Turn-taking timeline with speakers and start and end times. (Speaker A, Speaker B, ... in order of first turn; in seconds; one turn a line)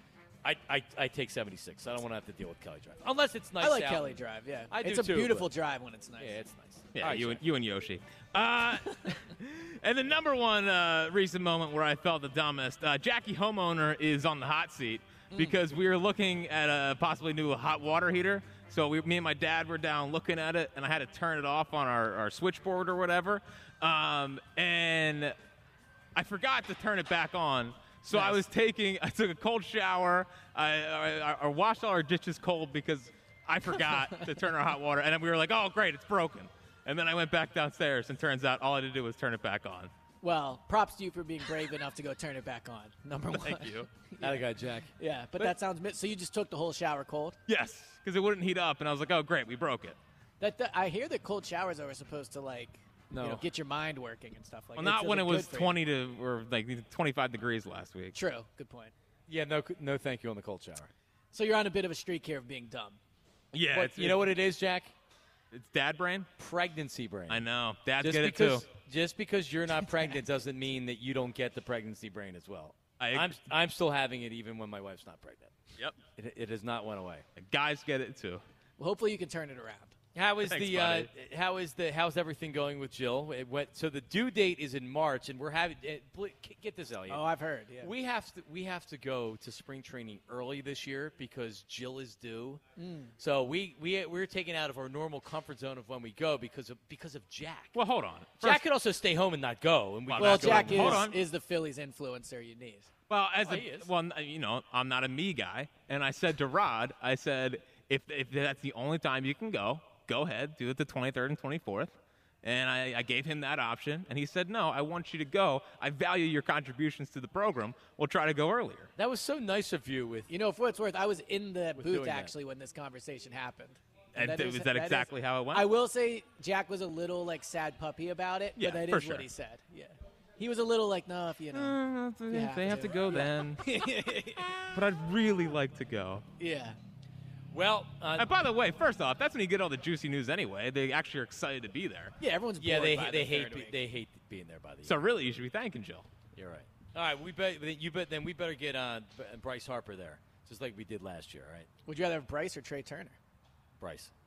Speaker A: 0.4-5.5
Speaker B: 3.6-6.4
Speaker A: 6.2-7.4
Speaker C: 6.9-25.4
Speaker B: 15.3-15.6
Speaker C: 26.1-39.9
Speaker B: 28.1-28.4
Speaker B: 40.2-44.5
Speaker C: 43.4-43.9
Speaker A: 44.2-44.9
Speaker B: 45.0-47.4
Speaker C: 47.5-50.0
Speaker B: 50.4-55.8
Speaker A: 53.1-53.4
Speaker C: 54.8-58.2
Speaker B: 58.1-58.9
Speaker A: 59.3-60.9
Speaker B: 61.3-63.0
Speaker C: 63.5-64.3
Speaker A: 63.7-64.9
Speaker C: 65.5-66.3
Speaker A: 66.4-67.5
Speaker C: 67.3-68.7
Speaker A: 68.0-77.2
Speaker C: 73.0-73.4
Speaker C: 77.4-78.4
Speaker B: 78.8-80.0
Speaker A: 80.2-87.3
Speaker C: 80.5-81.1
Speaker B: 87.1-87.9
Speaker A: 87.8-92.6
Speaker B: 92.8-93.1
Speaker A: 93.2-97.8
Speaker C: 97.8-98.6
Speaker A: 98.4-101.1
Speaker C: 100.1-101.2
Speaker B: 100.2-102.9
Speaker C: 103.1-118.9
Speaker A: 103.4-103.9
Speaker A: 119.0-120.3
Speaker B: 120.3-134.6
Speaker A: 121.8-122.3
Speaker C: 124.2-125.7
Speaker C: 128.6-129.3
Speaker C: 131.5-133.6
Speaker C: 134.7-136.2
Speaker B: 136.4-136.8
Speaker A: 137.5-138.3
Speaker C: 138.2-142.2
Speaker B: 142.2-143.8
Speaker A: 142.6-145.0
Speaker C: 144.8-146.1
Speaker A: 146.4-151.7
Speaker B: 151.9-153.2
Speaker A: 153.8-154.1